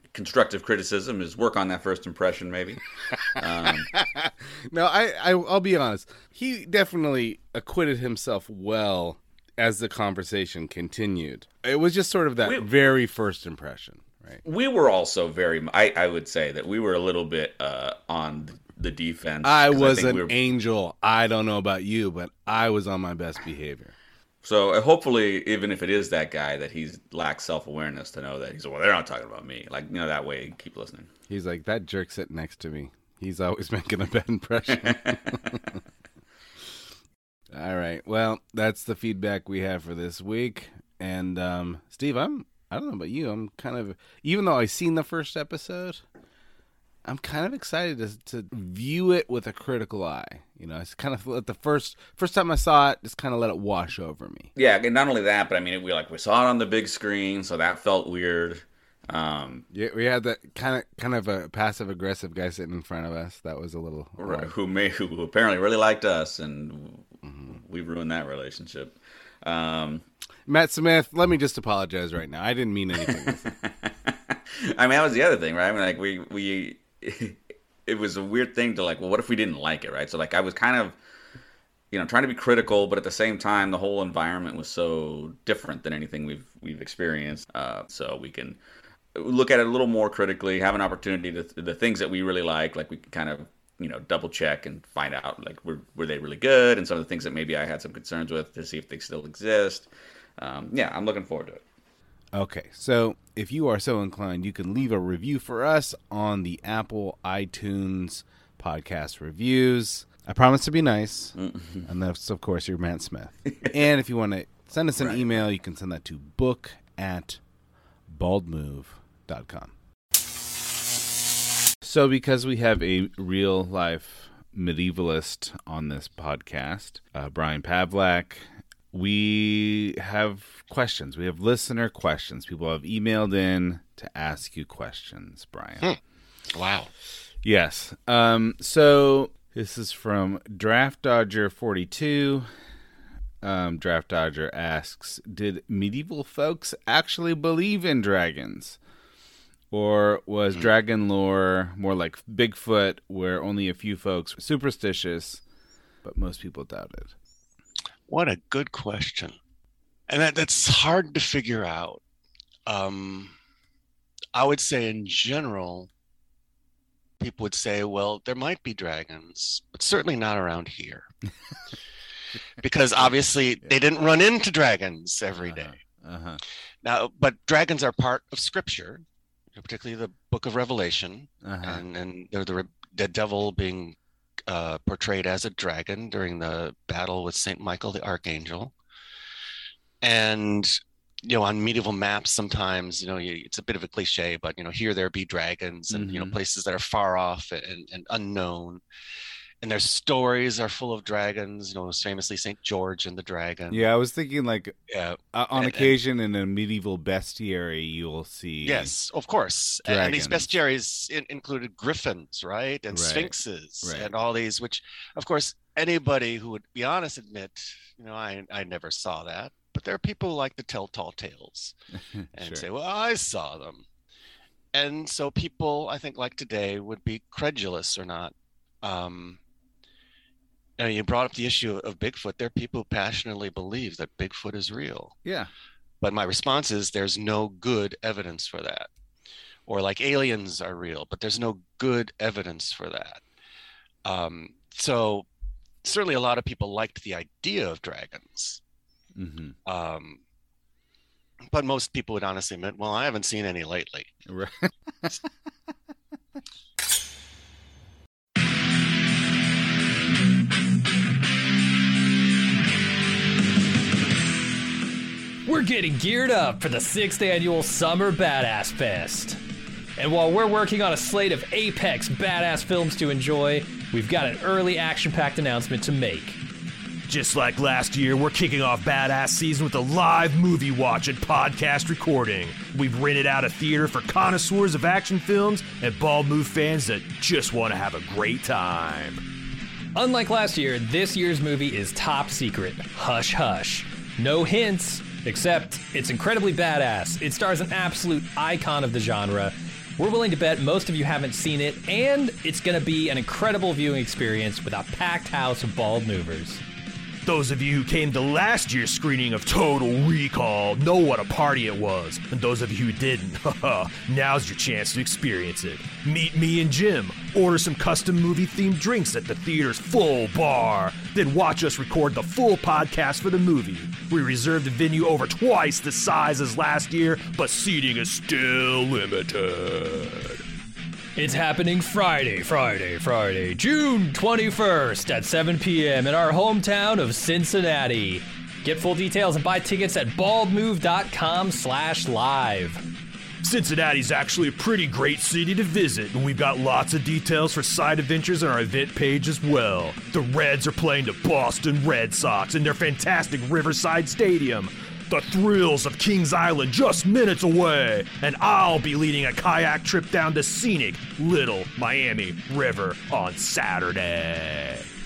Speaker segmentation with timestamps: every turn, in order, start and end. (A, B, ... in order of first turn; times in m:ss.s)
0:00.1-0:03.9 A
0:03.9-0:14.4 B
0:14.4-0:20.4 A
0:19.4-0:23.9 B
0:24.4-0:31.1 A
0:31.3-0:35.6 B
0:37.5-0:46.0 B
0:47.0-0:54.5 B
0:54.5-0:59.6 A
0:59.7-1:04.5 B
1:04.2-1:10.0 A
1:10.4-1:13.5 B
1:13.1-1:21.0 A
1:21.9-1:28.6 A
1:29.1-1:41.6 A
1:42.3-1:57.4 B
1:51.4-1:51.8 A
1:55.0-1:55.3 A
1:58.1-1:59.7 B
2:01.8-2:15.9 B
2:16.5-2:16.9 C
2:17.4-2:22.5 B
2:23.4-2:28.8 B
2:29.7-2:35.4 B
2:36.0-2:37.1 B
2:38.1-2:39.4 C
2:40.1-2:42.0 C
2:42.7-2:43.3 C
2:44.3-2:45.9 C
2:47.2-2:51.1 C
2:52.6-2:55.8 C
2:55.4-2:56.4 B
2:56.8-2:59.0 C
2:59.5-3:04.0 C
3:01.4-3:01.8 B
3:04.5-3:08.7 C
3:10.0-3:18.8 C
3:15.9-3:16.4 B
3:19.6-3:23.9 C
3:23.7-3:24.7 B
3:24.9-3:25.9 C
3:25.3-3:28.9 B
3:28.6-3:41.7 C
3:29.8-3:30.5 B
3:32.9-3:34.1 B
3:42.2-3:42.6 B
3:42.3-3:43.8 C
3:44.7-3:49.4 C
3:50.8-3:55.1 C
3:55.2-3:55.5 B
3:56.0-3:58.9 C
3:59.7-4:03.2 C
4:04.0-4:05.3 C
4:05.8-4:08.6 C
4:09.2-4:09.6 B
4:09.6-4:10.2 C
4:11.5-4:14.1 C
4:14.3-4:14.7 B
4:25.4-4:29.4 D
4:30.0-4:36.4 D
4:37.0-4:49.2 E
4:49.9-5:06.6 D
5:07.2-5:30.4 E
5:31.1-5:42.8 D
5:43.4-6:04.8 E